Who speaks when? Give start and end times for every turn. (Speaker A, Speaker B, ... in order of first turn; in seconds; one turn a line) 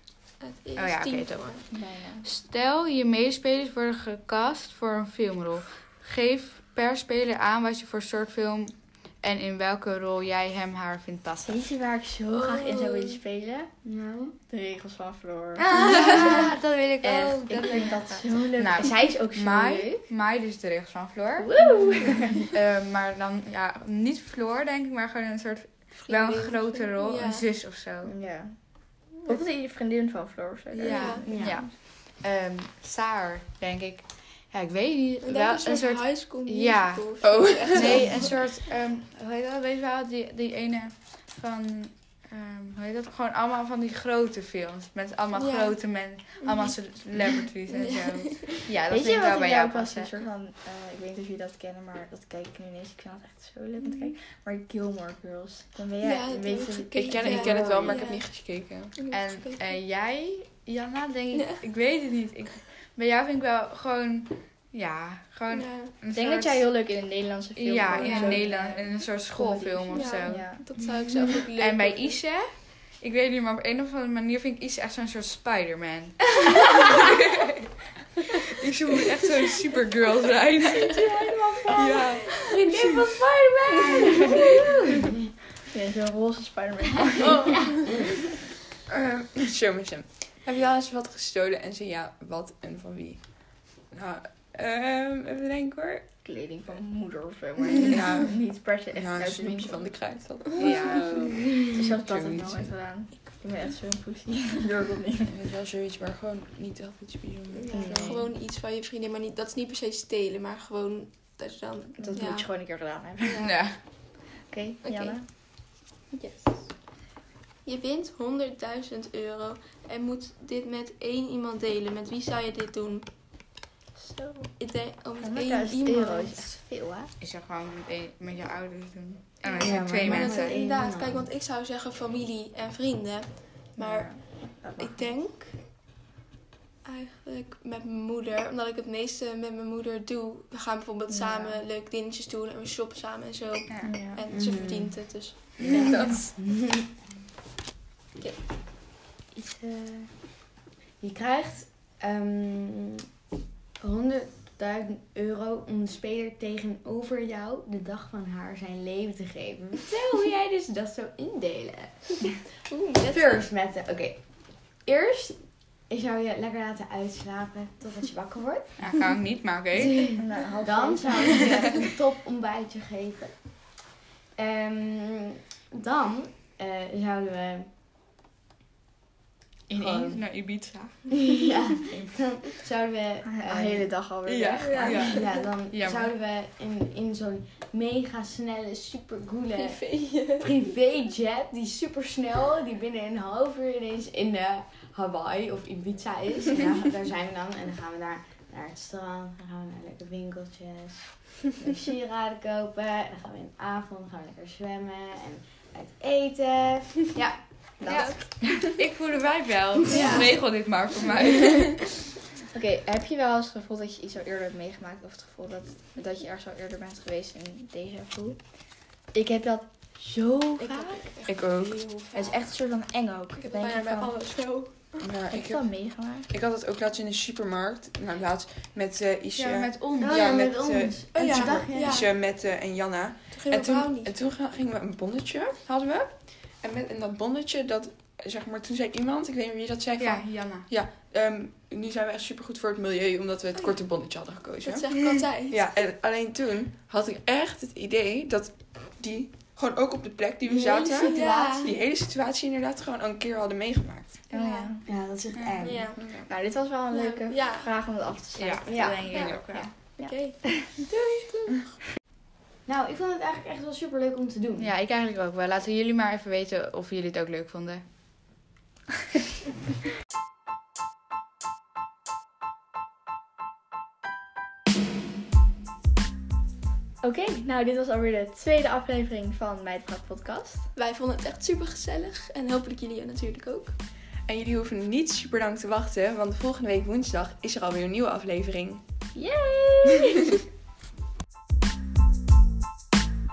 Speaker A: 0.4-1.6
Speaker B: 0.8-11.6
Speaker C: 1.7-2.3
Speaker C: 11.4-13.7
Speaker A: 12.3-13.2
Speaker D: 13.8-14.3
Speaker C: 14.5-16.5
Speaker B: 15.6-21.9
Speaker C: 17.0-20.0
Speaker C: 21.4-22.4
Speaker B: 22.4-28.1
Speaker A: 26.0-27.4
Speaker C: 28.0-31.7
Speaker A: 30.7-31.2
Speaker B: 30.8-50.1
Speaker D: 31.2-31.6
Speaker A: 35.2-38.3
Speaker E: 37.2-38.3
Speaker A: 45.3-46.8
Speaker A: 47.7-48.4
Speaker C: 48.9-58.0
Speaker A: 56.0-58.3
Speaker E: 56.9-58.9
Speaker A: 58.9-59.6
Speaker B: 59.1-66.8
Speaker A: 61.3-61.6
Speaker A: 65.5-65.9
Speaker C: 66.1-70.7
Speaker B: 67.5-70.8
Speaker A: 67.9-68.4
Speaker A: 69.9-72.2
Speaker B: 71.3-77.5
Speaker B: 78.3-81.2
Speaker C: 80.9-82.0
Speaker D: 81.3-84.7
Speaker E: 81.7-83.1
Speaker A: 82.3-82.8
Speaker A: 83.6-84.5
Speaker C: 85.6-87.7
Speaker A: 87.2-88.0
Speaker E: 88.9-96.1
Speaker C: 96.2-100.0
Speaker E: 98.9-102.7
Speaker B: 100.6-101.1
Speaker C: 101.7-105.3
Speaker E: 105.3-108.0
Speaker A: 107.5-112.6
Speaker C: 107.7-108.3
Speaker B: 107.8-108.1
Speaker C: 112.0-113.8
Speaker A: 113.2-113.5
Speaker B: 113.4-113.8
Speaker C: 114.5-115.2
Speaker A: 114.8-115.2
Speaker A: 116.1-116.9
Speaker A: 117.6-123.1
Speaker C: 124.0-124.5
Speaker A: 124.5-126.5
Speaker C: 125.2-127.1
Speaker B: 127.2-130.6
Speaker A: 129.4-135.6
Speaker D: 129.6-131.3
Speaker C: 133.8-135.1
Speaker A: 136.8-146.3
Speaker C: 141.1-141.6
Speaker B: 143.7-144.0
Speaker C: 143.8-144.2
Speaker D: 144.3-145.3
Speaker E: 145.6-145.9
Speaker D: 146.4-146.9
Speaker A: 148.2-148.4
Speaker D: 149.3-150.4
Speaker D: 151.0-153.0
Speaker D: 153.8-162.3
Speaker A: 162.7-163.4
Speaker D: 163.1-168.8
Speaker B: 168.8-170.2
Speaker C: 170.1-171.7
Speaker D: 170.6-173.8
Speaker D: 174.3-177.7
Speaker B: 179.7-181.4
Speaker D: 179.7-180.2
Speaker D: 181.2-183.9
Speaker C: 183.2-185.2
Speaker B: 184.6-186.1
Speaker A: 184.6-185.4
Speaker D: 184.9-189.8
Speaker A: 189.5-190.7
Speaker D: 190.3-207.4
Speaker C: 207.8-208.7
Speaker A: 207.9-208.2
Speaker B: 207.9-211.9
Speaker A: 209.9-210.3
Speaker C: 212.5-218.6
Speaker C: 219.1-221.1
Speaker A: 220.6-222.4
Speaker E: 221.3-222.0
Speaker C: 222.1-224.2
Speaker A: 223.3-225.0
Speaker E: 225.0-244.9
Speaker C: 225.3-226.3
Speaker B: 229.3-230.4
Speaker D: 229.9-232.1
Speaker A: 231.1-232.1
Speaker A: 233.3-234.2
Speaker B: 240.0-240.7
Speaker A: 244.6-245.6
Speaker E: 245.5-254.2
Speaker D: 250.4-251.7
Speaker A: 251.0-251.7
Speaker A: 254.3-254.7
Speaker C: 254.3-254.8
Speaker D: 254.8-255.9
Speaker A: 255.6-256.0
Speaker E: 255.9-256.3
Speaker C: 256.3-260.6
Speaker A: 256.9-257.7
Speaker B: 258.4-259.7
Speaker A: 258.8-261.7
Speaker D: 262.6-264.7
Speaker B: 264.6-267.9
Speaker C: 277.0-280.6
Speaker A: 280.7-283.8
Speaker E: 284.2-288.8
Speaker C: 289.1-290.2